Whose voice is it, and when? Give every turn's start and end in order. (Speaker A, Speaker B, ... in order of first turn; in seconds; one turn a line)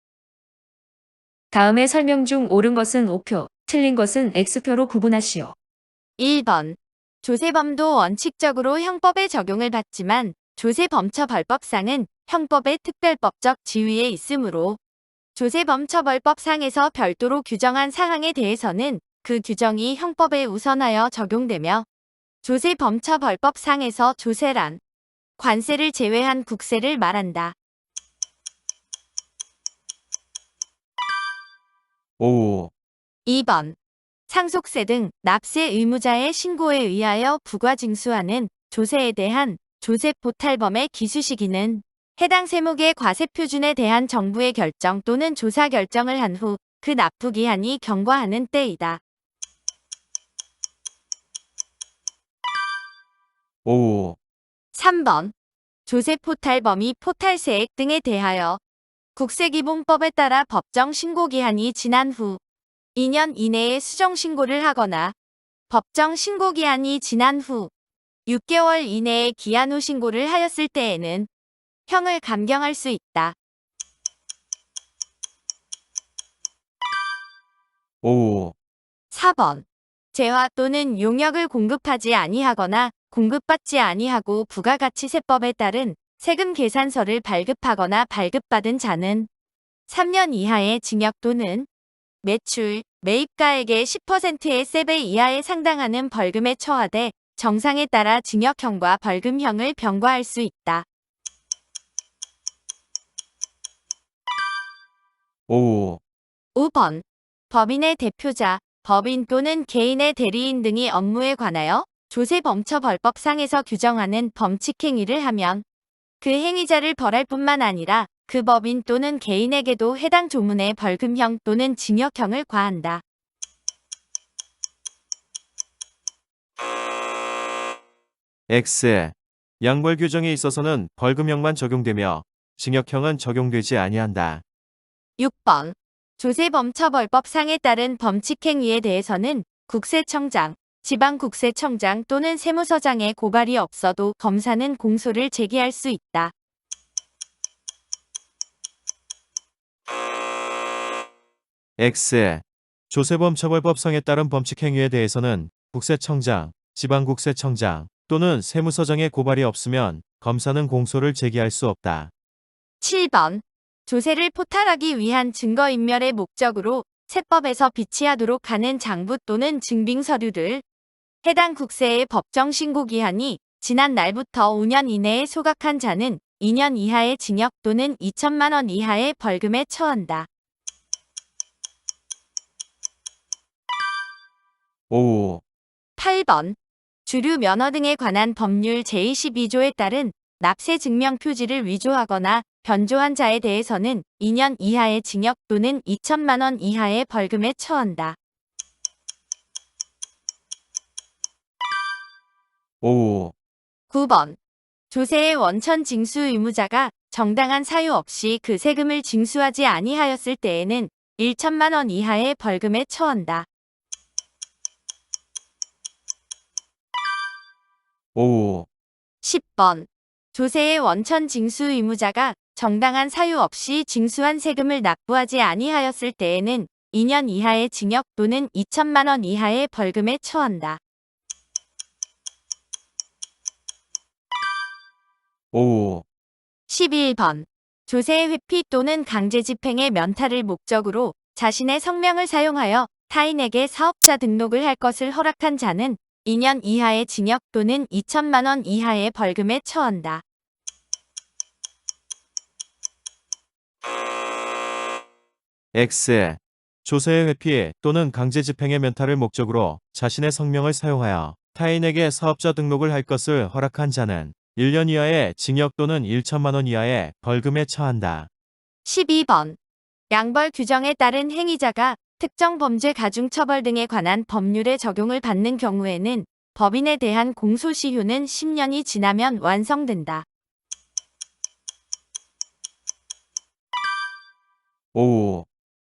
Speaker A: 1.5-5.5
Speaker B: 6.2-14.8
Speaker B: 15.3-21.9
Speaker B: 22.4-24.8
Speaker B: 25.4-27.6
Speaker C: 32.2-32.7
Speaker B: 33.2-33.8
Speaker B: 34.3-49.0
Speaker C: 53.6-54.2
Speaker B: 54.7-55.3
Speaker B: 55.9-58.6
Speaker B: 59.1-62.4
Speaker B: 63.0-65.2
Speaker B: 65.7-67.7
Speaker B: 68.3-71.3
Speaker B: 71.9-73.4
Speaker C: 78.0-78.5
Speaker B: 79.1-89.3
Speaker B: 89.9-91.7
Speaker B: 92.2-100.9
Speaker C: 105.5-106.0
Speaker B: 106.5-115.7
Speaker B: 116.2-123.0
Speaker C: 128.5-134.4
Speaker B: 135.2-146.3
Speaker C: 151.8-162.1
Speaker B: 162.8-170.6
Speaker B: 171.2-180.3
Speaker C: 184.9-185.4
Speaker B: 186.0-198.2
Speaker C: 202.8-203.3
Speaker B: 203.9-204.4
Speaker B: 204.9-213.5
Speaker C: 218.2-218.7
Speaker B: 219.2-230.8
Speaker C: 235.5-236.1
Speaker B: 236.7-250.2
Speaker C: 255.7-268.3
Speaker B: 268.8-269.6
Speaker B: 270.1-280.3
Speaker C: 284.9-285.5